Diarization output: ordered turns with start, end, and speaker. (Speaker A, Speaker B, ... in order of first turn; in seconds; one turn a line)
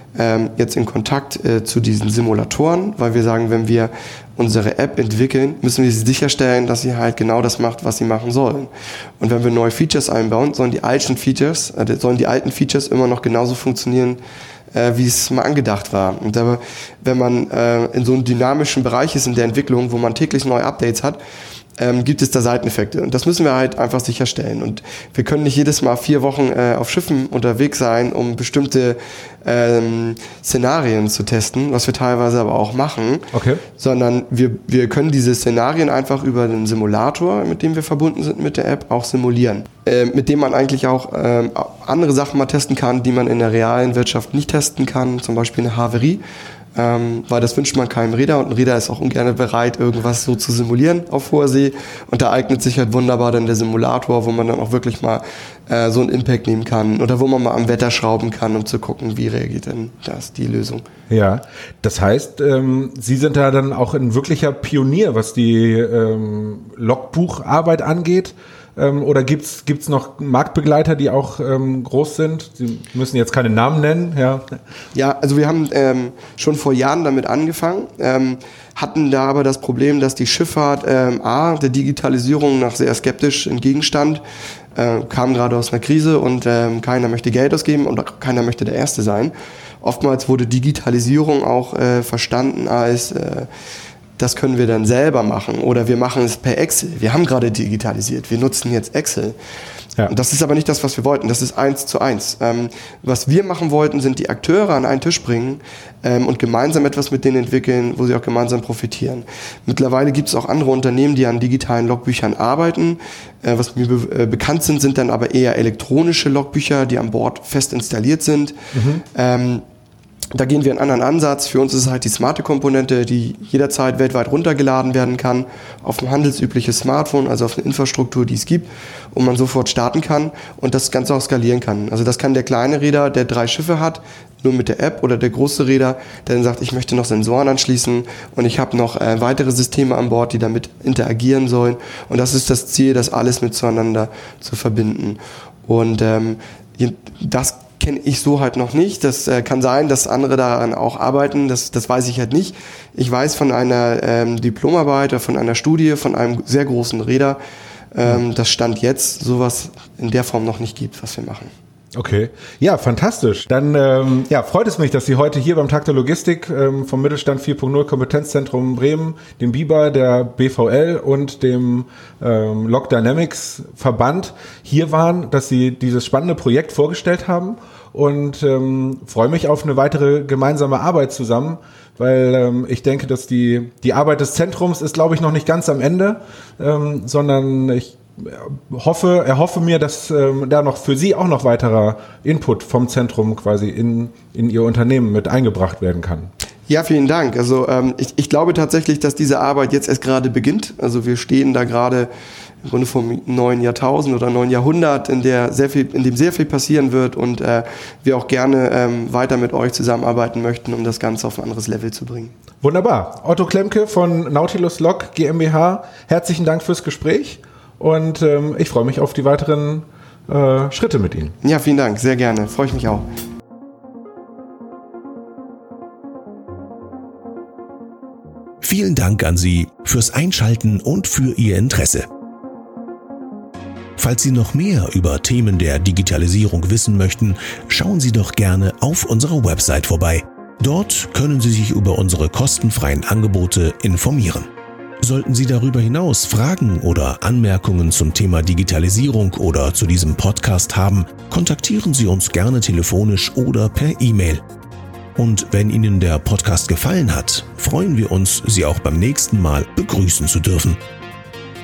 Speaker A: 0.2-14.2
Speaker A: 14.7-21.2
Speaker A: 21.8-46.2
Speaker B: 33.3-33.6
Speaker A: 46.8-60.8
Speaker B: 61.1-74.5
Speaker A: 74.9-84.2
Speaker A: 84.8-93.5
Speaker A: 94.2-99.4
Speaker A: 100.1-118.6
Speaker B: 118.7-119.0
Speaker A: 119.1-119.6
Speaker A: 120.3-157.4
Speaker A: 157.9-161.5
Speaker B: 162.0-196.3
Speaker A: 196.7-202.1
Speaker A: 202.7-212.3
Speaker B: 212.6-221.3
Speaker A: 221.4-223.1
Speaker C: 228.6-232.1
Speaker C: 234.0-244.5
Speaker C: 245.0-254.4
Speaker C: 255.2-260.8